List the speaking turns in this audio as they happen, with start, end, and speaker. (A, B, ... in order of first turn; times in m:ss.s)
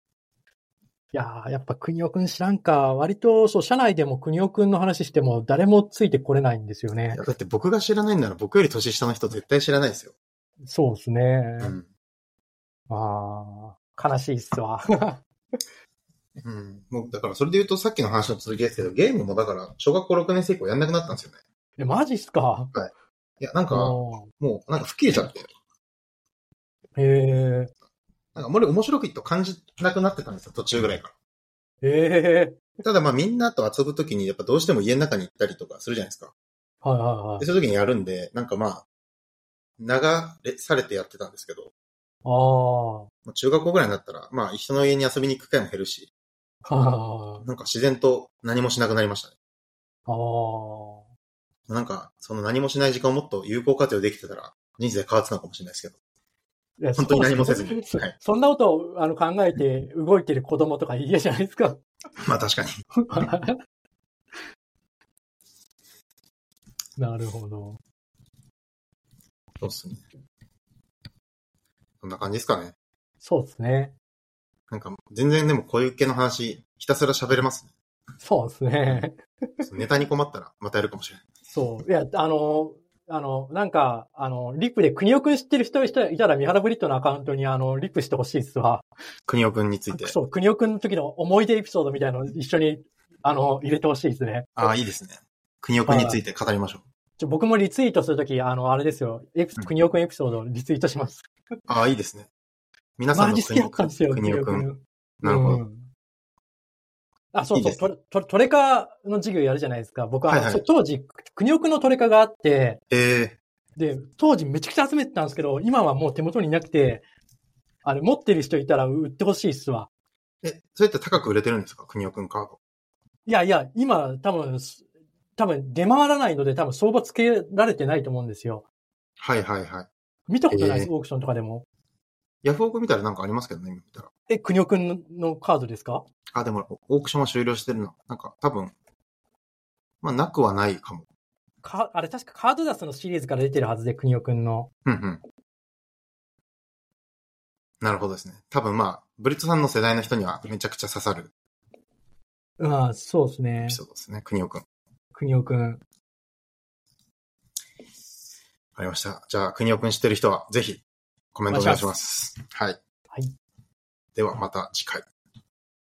0:01.1-0:07.2 A
0:07.1-0:10.1 B
0:10.6-0:11.8 A
0:11.6-0:11.9 B
0:12.9-0:15.2 A
0:16.4-0:21.4 B
0:21.8-0:22.7 A
0:22.7-0:25.5 B
0:23.7-0:24.3 A
0:27.0-0:27.7 A
0:28.4-0:31.1 B
0:31.8-0:32.7 A
0:32.8-0:36.3 B
0:36.8-0:37.5 A
0:37.4-0:38.8 B
0:39.8-0:41.7 B
0:42.2-0:43.1 A
0:43.3-0:46.1 B
0:46.6-0:47.4 A
0:47.4-0:49.3 B
0:50.1-0:51.1 A
0:51.7-0:56.0 B
0:56.8-1:01.8 A
0:57.0-0:58.2 B
1:02.2-1:02.8 B
1:03.0-1:03.6 A
1:07.0-1:07.8 A
1:09.6-1:10.0 B
1:12.0-1:12.8 B
1:13.2-1:13.9 A
1:14.7-1:17.7 B
1:18.2-1:19.7 A
1:19.6-1:21.2 B
1:21.5-1:28.9 A
1:29.3-1:30.2 B
1:29.9-1:34.7 A
1:34.6-1:36.8 B
1:35.9-1:36.2 A
1:37.2-1:41.3 A
1:41.7-1:42.3 B
1:43.0-1:44.7 B
1:43.1-1:45.9 A
1:45.2-1:45.6 B
1:47.3-1:52.8 A
1:47.5-1:47.9 B
1:50.3-1:50.6 B
1:52.9-1:53.4 B
1:53.8-1:57.0 A
1:57.8-1:59.9 A
2:00.4-2:02.6 B
2:03.3-2:04.8 A
2:05.4-2:08.6 A
2:09.2-2:09.9 B
2:10.3-2:11.6 A
2:10.5-2:10.9 B
2:12.4-2:14.1 B
2:14.3-2:16.0 A
2:16.3-2:18.7 B
2:20.0-2:21.1 B
2:21.6-2:24.7 A
2:24.9-2:25.2 B
2:27.8-2:31.3 B
2:32.6-2:33.8 A
2:33.7-2:34.6 B
2:35.2-2:35.8 A
2:38.8-2:40.8 B
2:41.4-2:42.8 B
2:41.5-2:41.9 A
2:44.2-2:45.0 B